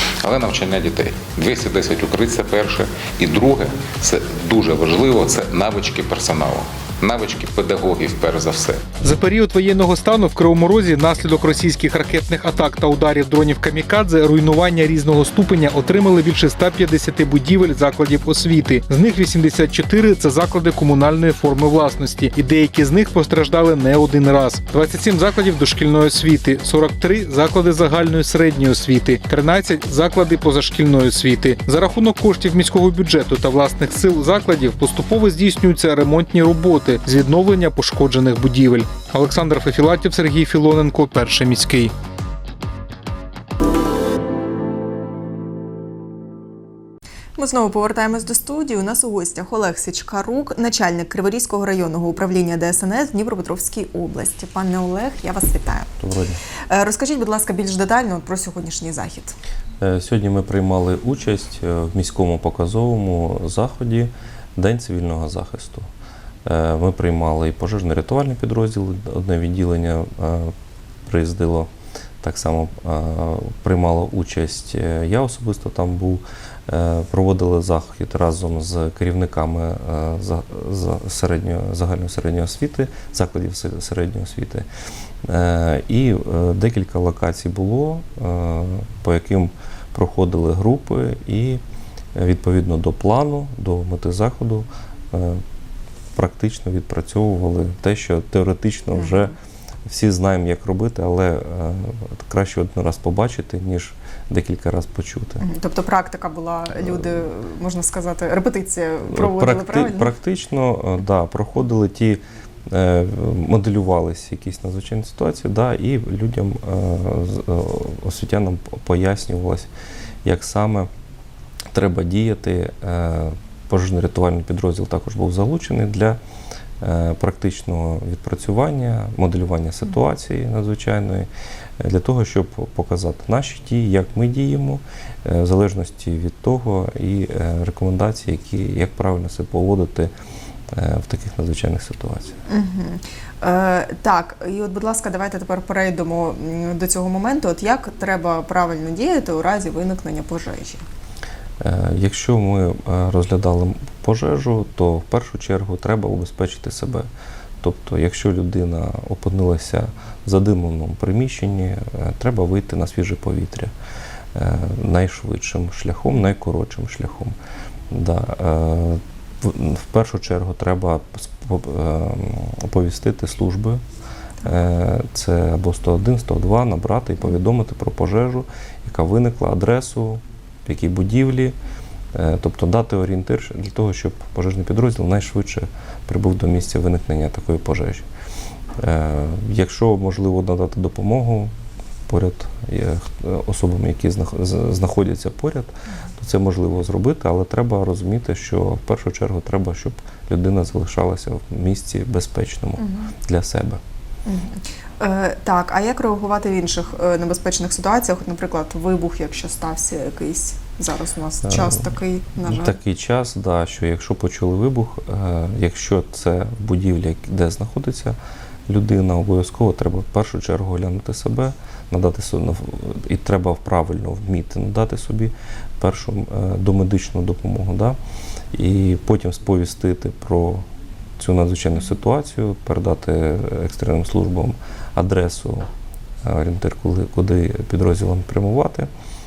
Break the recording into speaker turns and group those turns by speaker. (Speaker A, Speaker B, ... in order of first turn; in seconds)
Speaker A: 0.2-8.8
Speaker B: 9.0-41.9
Speaker C: 47.4-55.9, 56.7-59.4, 99.0-99.3, 105.4-110.1, 142.5-150.8, 202.8-203.1, 204.3-212.8
Speaker D: 56.0-56.4, 59.8-65.9, 66.5-70.5, 71.1-71.7, 72.2-84.7, 85.3-91.6, 92.2-95.4, 96.2-99.3, 99.9-105.4, 109.1-119.7, 120.2-120.9, 121.7-126.2, 126.8-140.1, 140.7-142.4, 151.6-157.1, 157.6-163.7, 164.3-167.4, 167.9-173.8, 174.4-181.6, 182.1-188.1, 188.8-191.5, 192.1-203.8, 212.5-228.0, 228.5-230.7, 231.2-235.7, 236.2-238.9